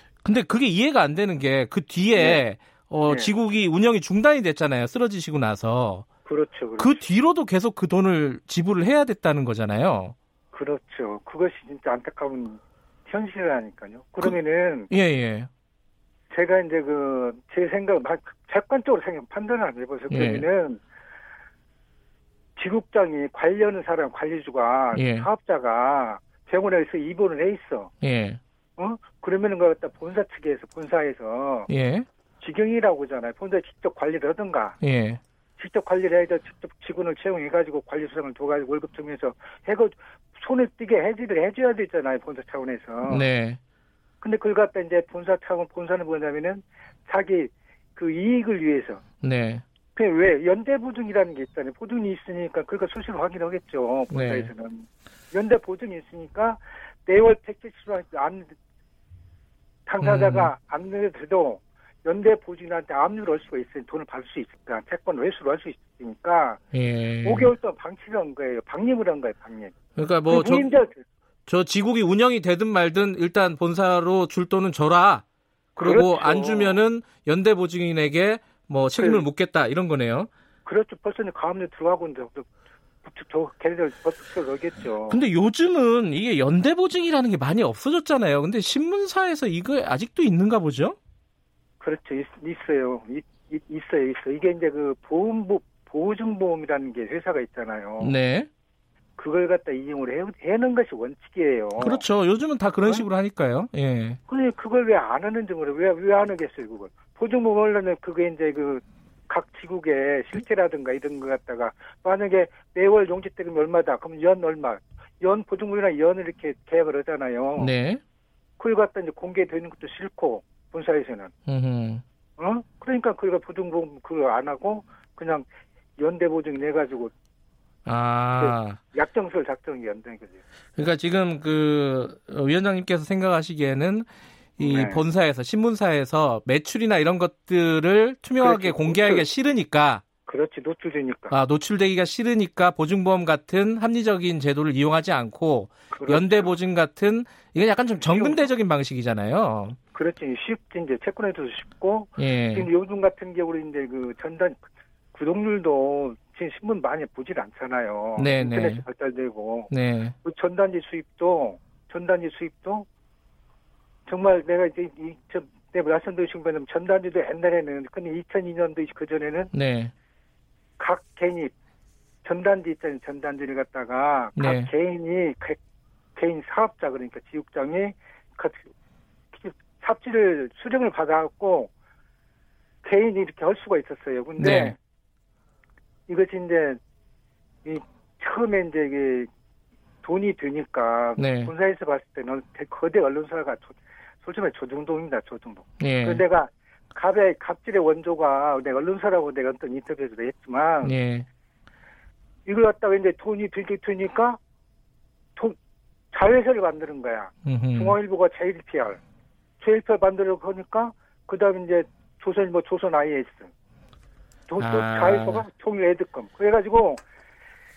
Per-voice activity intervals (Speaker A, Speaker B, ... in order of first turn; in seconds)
Speaker A: 0.2-6.1, 6.8-10.1, 14.9-15.5, 20.1-20.4, 24.9-25.3, 28.0-28.4, 31.7-32.1, 34.8-35.2, 43.1-43.6, 49.2-49.6, 54.1-54.5, 60.0-60.5, 66.7-67.5, 70.0-70.7, 71.5-80.3, 85.1-91.0, 98.0-98.5, 101.8-104.2, 117.6-118.0, 121.5-122.0, 127.9-128.8, 130.8-134.1, 134.6-140.0, 141.3-149.8, 152.2-152.7, 158.2-158.8, 159.7-160.2, 169.5-169.9, 174.4-174.7, 184.4-184.8, 191.2-191.5, 195.8-196.2, 200.8-201.3, 207.4-208.0, 214.6-215.5
Speaker B: 2.1-2.4, 3.0-3.3, 6.2-7.0, 10.5-14.9, 16.3-20.8, 22.6-27.9, 28.8-31.7, 32.4-34.8, 35.6-43.3, 44.2-49.0, 50.0-58.5, 59.9-66.6, 67.2-69.7, 70.3-71.0, 75.8-76.8, 79.0-79.3, 80.7-82.5, 83.0-85.2, 91.8-98.2, 99.2-102.0, 104.3-117.7, 118.6-121.3, 122.4-125.5, 126.0-127.1, 128.4-130.4, 134.6-135.0, 138.4-139.3, 140.3-141.4, 145.9-146.5, 148.0-148.5, 149.9-154.6, 155.1-159.7, 160.2-162.9, 164.1-169.5, 170.8-171.5, 172.2-175.6, 176.2-178.7, 179.3-181.7, 182.8-184.8, 186.1-186.8, 187.7-189.3, 190.0-200.9, 202.5-204.4, 206.1-209.0, 209.6-213.5, 214.5-217.0